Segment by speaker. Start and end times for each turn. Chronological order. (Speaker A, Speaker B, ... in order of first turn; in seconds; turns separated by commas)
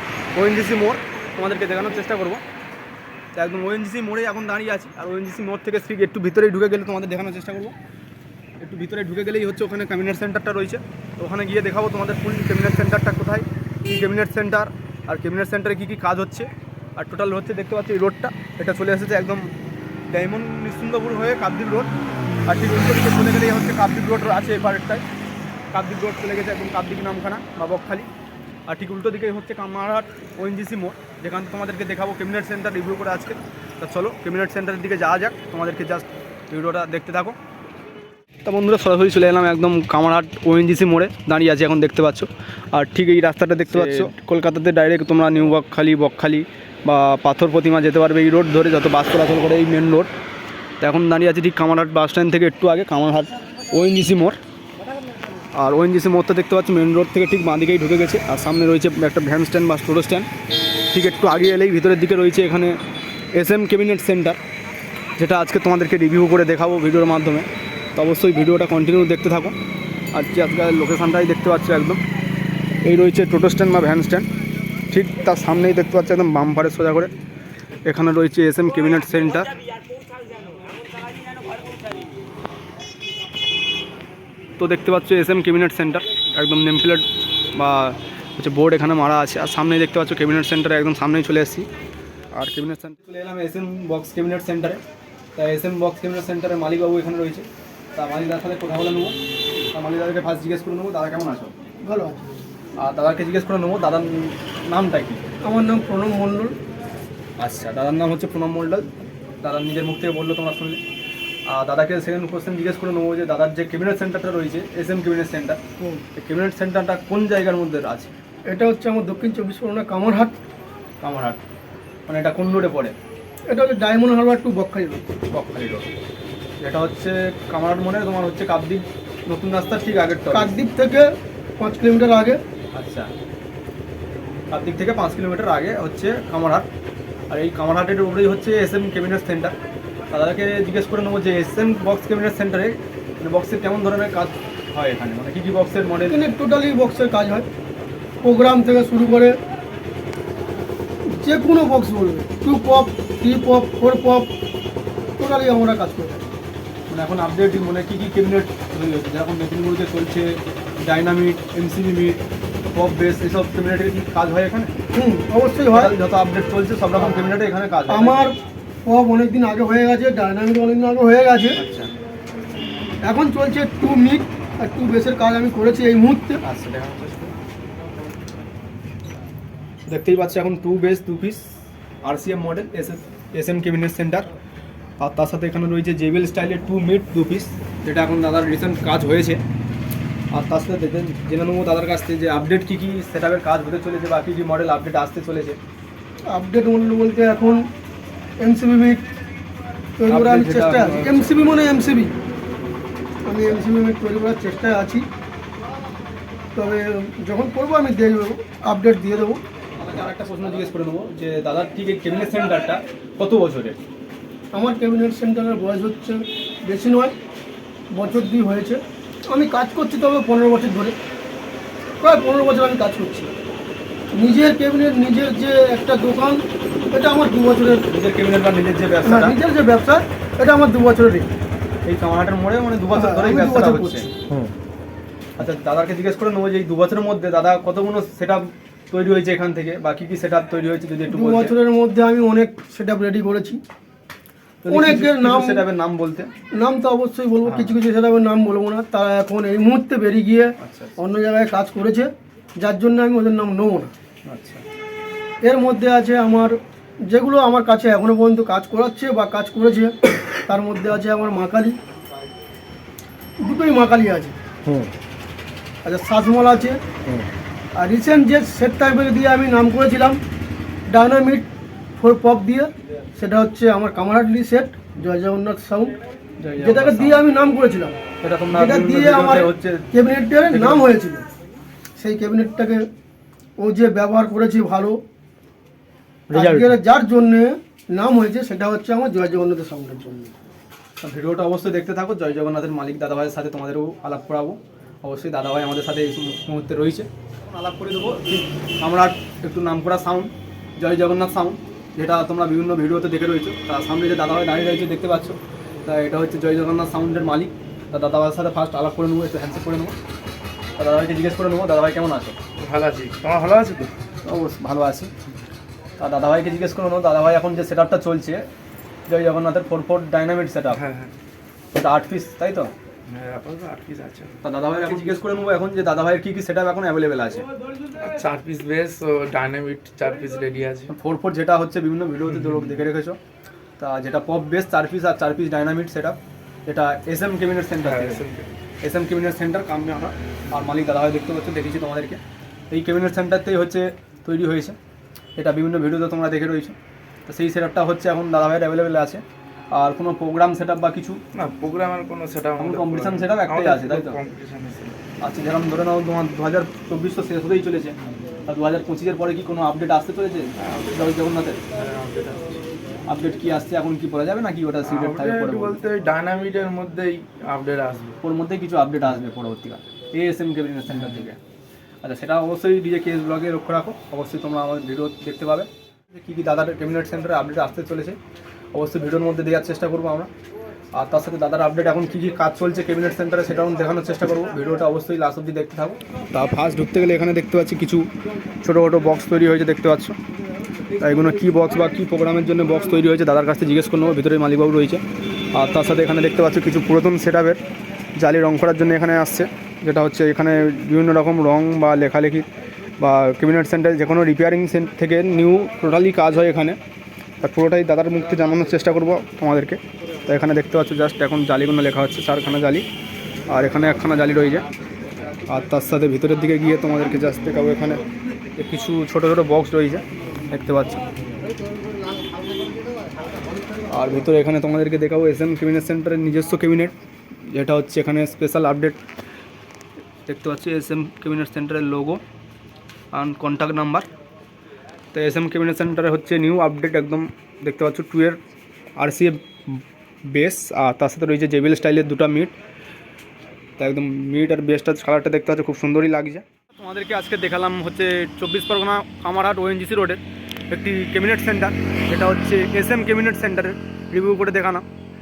Speaker A: 0.3-2.4, Speaker A: 3.3-7.7, Speaker A: 8.6-19.5, Speaker A: 20.1-21.9, Speaker A: 22.5-25.0, Speaker A: 25.7-28.1, Speaker A: 28.7-37.4, Speaker A: 38.5-50.1, Speaker B: 43.7-44.1, Speaker A: 50.8-54.4, Speaker A: 55.5-60.3, Speaker A: 60.9-62.8, Speaker A: 63.3-64.4, Speaker A: 65.2-69.5, Speaker A: 70.1-72.0, Speaker A: 72.8-74.3, Speaker A: 74.9-77.1, Speaker A: 77.9-79.6, Speaker A: 84.6-91.7, Speaker A: 92.3-94.8, Speaker A: 95.4-97.4, Speaker A: 98.0-99.1, Speaker A: 99.7-101.5, Speaker C: 101.8-102.3, Speaker A: 102.8-105.2, Speaker C: 105.4-106.5, Speaker A: 107.4-108.9, Speaker A: 109.4-110.8, Speaker A: 111.5-115.6, Speaker A: 116.2-118.2, Speaker C: 118.5-120.3, Speaker A: 121.0-121.4, Speaker A: 122.1-122.9, Speaker C: 123.5-125.1, Speaker A: 125.3-125.9, Speaker A: 126.6-130.6, Speaker C: 130.3-131.1, Speaker C: 131.6-132.4, Speaker A: 132.7-133.1, Speaker A: 134.5-136.7, Speaker A: 137.3-139.5, Speaker A: 140.1-146.2, Speaker C: 146.1-147.5, Speaker C: 148.2-149.3, Speaker C: 151.2-154.3, Speaker C: 155.2-156.3, Speaker A: 156.9-162.2, Speaker A: 162.7-164.7, Speaker C: 164.9-165.9, Speaker A: 165.7-168.3, Speaker C: 167.0-167.3, Speaker C: 167.9-168.3, Speaker C: 168.8-171.6, Speaker A: 171.6-171.9, Speaker C: 173.0-176.4, Speaker A: 176.4-177.3, Speaker A: 179.9-181.4, Speaker A: 182.0-184.3, Speaker A: 185.0-189.4, Speaker A: 190.3-195.6, Speaker C: 196.3-197.7, Speaker C: 198.4-199.0, Speaker C: 200.0-202.1, Speaker A: 200.1-201.4, Speaker C: 203.2-205.1, Speaker C: 206.6-209.4, Speaker A: 209.8-213.8, Speaker C: 214.5-217.1, Speaker C: 217.9-220.9, Speaker C: 222.0-223.3, Speaker C: 224.1-227.8, Speaker A: 227.9-229.3, Speaker C: 229.0-231.3, Speaker A: 231.8-234.1, Speaker C: 232.9-234.1, Speaker A: 235.4-241.6, Speaker C: 241.1-243.6, Speaker A: 244.6-246.3, Speaker C: 244.7-245.7, Speaker C: 246.5-253.9, Speaker A: 247.5-247.8, Speaker A: 250.6-250.9, Speaker A: 254.3-254.6, Speaker C: 255.4-256.5, Speaker C: 257.1-259.9, Speaker C: 260.5-261.8, Speaker C: 263.4-264.4, Speaker C: 265.9-266.8, Speaker C: 267.8-270.2, Speaker C: 270.9-271.5, Speaker C: 272.0-275.9, Speaker A: 276.4-277.3, Speaker C: 276.6-277.9, Speaker A: 278.2-279.9, Speaker C: 278.5-281.2, Speaker A: 280.4-280.9, Speaker C: 282.0-282.9, Speaker C: 283.6-285.0, Speaker A: 286.3-286.8, Speaker C: 286.3-290.3, Speaker A: 291.0-309.9, Speaker A: 310.8-312.4, Speaker B: 312.6-313.9, Speaker A: 314.2-315.1, Speaker A: 316.0-318.5, Speaker A: 319.1-320.8, Speaker B: 320.7-321.1, Speaker A: 321.7-322.7, Speaker B: 323.1-325.2, Speaker A: 324.4-327.4, Speaker B: 328.0-330.9, Speaker A: 330.9-333.2, Speaker B: 332.3-332.8, Speaker A: 333.8-338.2, Speaker B: 337.8-338.5, Speaker A: 338.8-342.2, Speaker A: 342.7-344.8, Speaker A: 345.4-346.8, Speaker A: 347.3-351.2, Speaker B: 351.3-355.0, Speaker A: 352.6-354.2, Speaker A: 355.2-358.0, Speaker A: 358.5-361.6, Speaker B: 360.6-361.1, Speaker B: 361.7-362.6, Speaker A: 363.1-365.8, Speaker B: 364.8-368.2, Speaker A: 368.2-371.4, Speaker B: 370.9-371.3, Speaker A: 372.0-378.2, Speaker A: 378.7-380.3, Speaker A: 380.9-388.1, Speaker A: 388.6-390.1, Speaker A: 391.0-395.0, Speaker A: 395.5-397.6, Speaker A: 398.2-402.4, Speaker A: 403.0-406.8, Speaker A: 407.4-412.9, Speaker A: 413.5-414.6, Speaker A: 415.5-418.0, Speaker A: 418.6-421.1, Speaker A: 423.9-426.9, Speaker A: 427.5-429.0, Speaker A: 430.3-432.2, Speaker A: 433.1-434.1, Speaker A: 435.1-438.4, Speaker A: 439.0-442.6, Speaker A: 443.8-450.2, Speaker A: 450.7-454.8